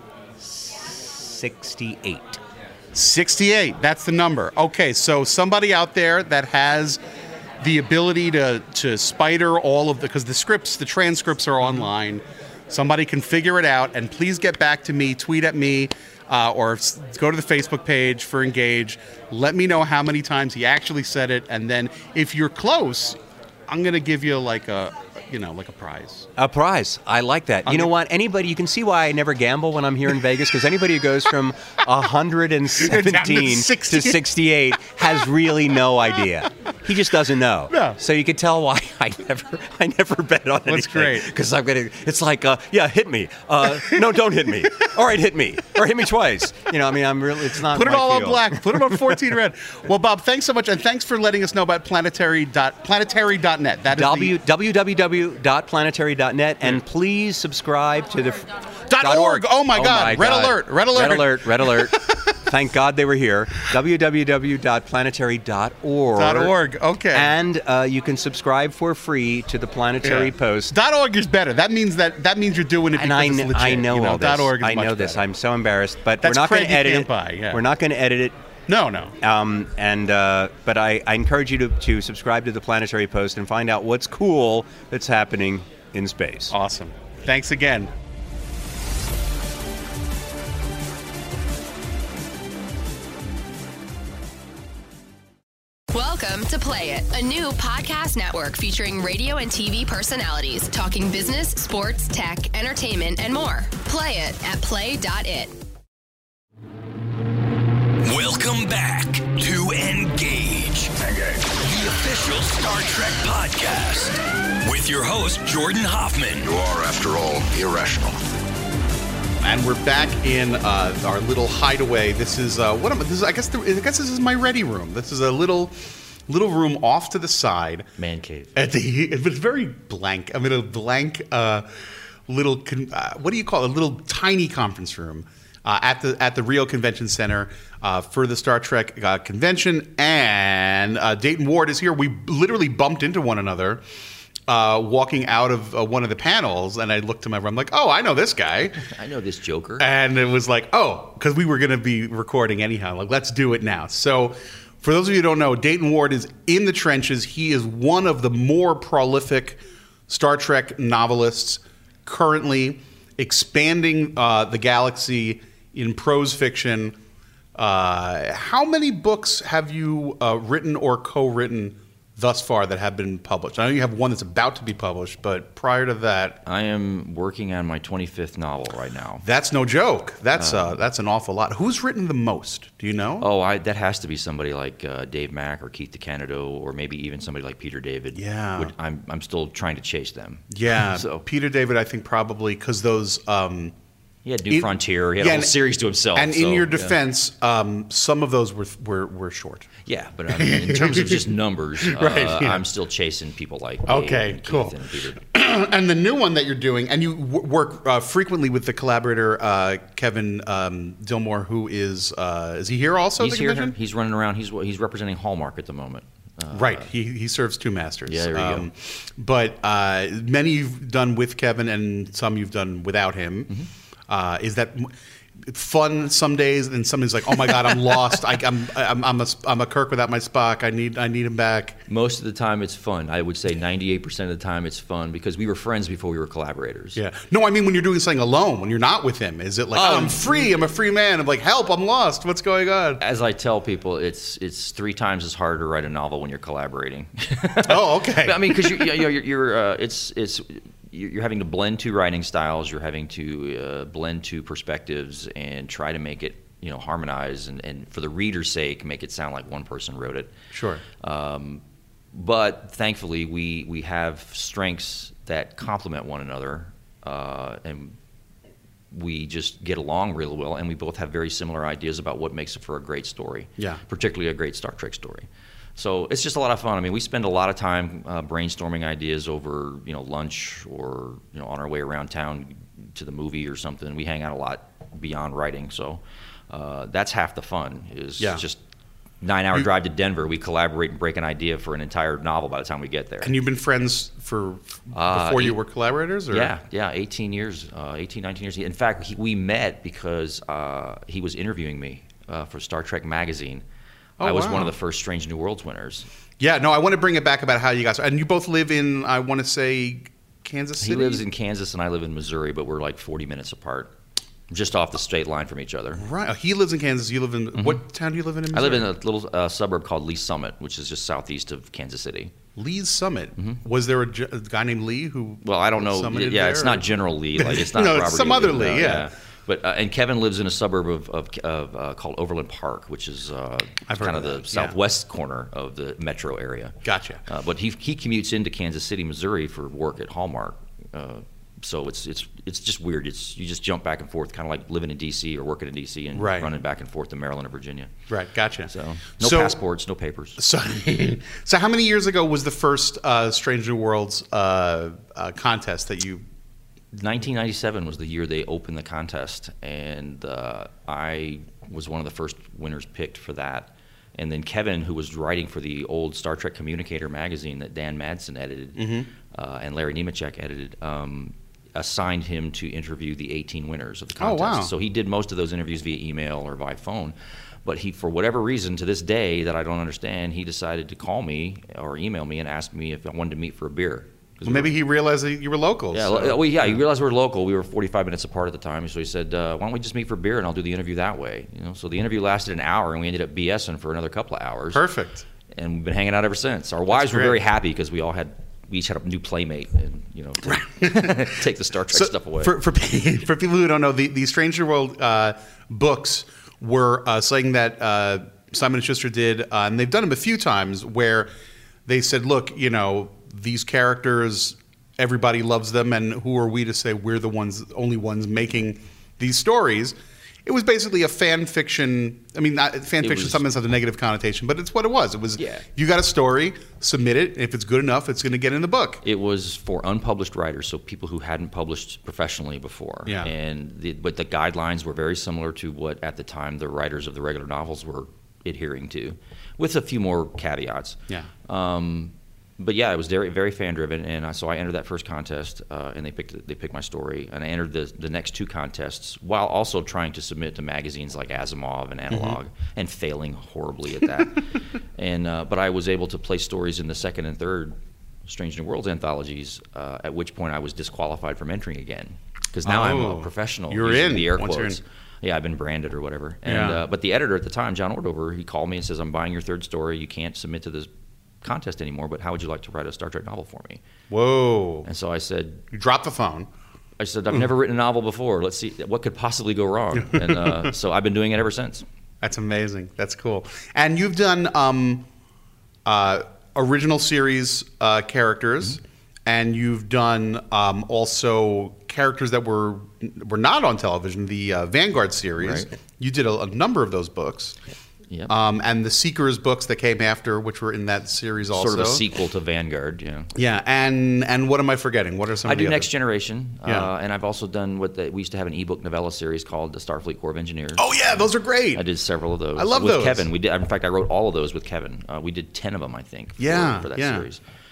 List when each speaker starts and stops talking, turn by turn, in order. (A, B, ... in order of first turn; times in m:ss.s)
0:00.4-0:02.4 A
0:02.9-0:07.0 B
0:07.6-0:26.3 B
0:26.4-0:49.3 A
0:27.6-0:27.9 B
0:32.8-0:34.3 B
0:34.9-0:35.2 B
0:37.7-0:38.0 B
0:40.6-0:41.3 B
0:47.6-0:54.4 B
0:53.9-0:58.5 A
0:58.9-1:02.3 B
0:59.0-1:06.5 A
1:06.1-1:07.3 B
1:07.1-1:10.8 A
1:10.0-1:15.3 B
1:13.0-1:18.4 A
1:16.2-1:17.6 B
1:18.7-1:19.1 B
1:19.2-1:26.5 A
1:26.5-1:27.9 B
1:35.9-1:45.5 C
1:48.0-1:50.9 D
1:51.0-1:51.4 E
1:51.5-1:56.5 D
1:56.4-1:58.2 E
1:59.4-2:07.9 B
2:08.0-2:08.5 F
2:08.5-2:23.8 B
2:24.5-2:28.8 B
2:28.8-2:29.9 F
2:29.8-2:47.0 B
2:47.6-2:56.4 B
2:56.4-2:59.2 F
2:59.2-3:03.3 B
3:00.4-3:00.8 F
3:03.2-3:11.2 F
3:08.1-3:08.7 B
3:10.5-3:13.7 B
3:14.2-3:17.0 F
3:14.4-3:19.7 B
3:19.8-3:25.2 F
3:20.3-3:21.3 B
3:21.8-3:22.6 B
3:23.8-3:33.7 B
3:33.2-3:36.9 F
3:36.5-3:43.5 B
3:38.0-3:38.7 F
3:44.1-3:51.8 B
3:51.9-3:57.0 F
3:57.0-4:03.0 B
3:59.7-4:00.5 F
4:03.0-4:20.3 F
4:07.6-4:09.0 B
4:20.5-4:20.8 B
4:21.0-4:21.6 F
4:22.1-4:28.0 F
4:28.9-4:48.6 F
4:48.2-4:48.4 B
4:49.2-4:53.3 F
4:53.2-4:56.5 B
4:54.9-4:55.6 F
4:56.3-5:03.6 F
5:04.2-5:04.7 B
5:04.2-5:06.1 F
5:06.4-5:11.2 B
5:10.8-5:13.9 F
5:14.5-5:16.0 F
5:16.0-5:18.9 B
5:17.5-5:17.8 F
5:18.5-5:22.3 F
5:22.6-5:29.1 B
5:25.4-5:36.8 F
5:33.9-5:34.8 B
5:36.8-5:37.2 B
5:37.3-5:47.9 F
5:46.1-5:46.5 B
5:48.1-5:49.6 B
5:48.7-5:50.4 F
5:50.4-5:56.2 B
5:56.9-6:24.7 F
6:08.8-6:09.1 B
6:14.2-6:14.7 B
6:24.4-6:26.8 B
6:25.9-6:34.8 F
6:34.7-6:35.2 B
6:35.5-6:42.6 F
6:36.9-6:37.4 B
6:40.4-6:41.4 B
6:41.9-6:51.3 B
6:51.8-7:09.0 B
7:03.0-7:03.4 F
7:05.4-7:05.6 F
7:09.0-7:50.9 F
7:13.0-7:13.3 B
7:32.1-7:32.4 B
7:42.6-7:44.8 B
7:46.4-7:46.8 B
7:51.4-7:53.8 F
7:54.1-7:54.9 B
7:54.8-7:55.6 F
7:55.7-7:56.5 B
7:57.0-8:01.8 F
7:59.9-8:00.7 B
8:02.2-8:05.1 B
8:05.8-8:17.6 B
8:15.4-8:15.7 F
8:18.1-8:18.3 F
8:18.3-8:22.0 B
8:21.5-8:23.3 F
8:23.3-8:25.9 B
8:25.4-8:37.4 F
8:26.6-8:26.9 B
8:30.8-8:31.8 B
8:32.5-8:33.3 B
8:36.4-8:37.3 B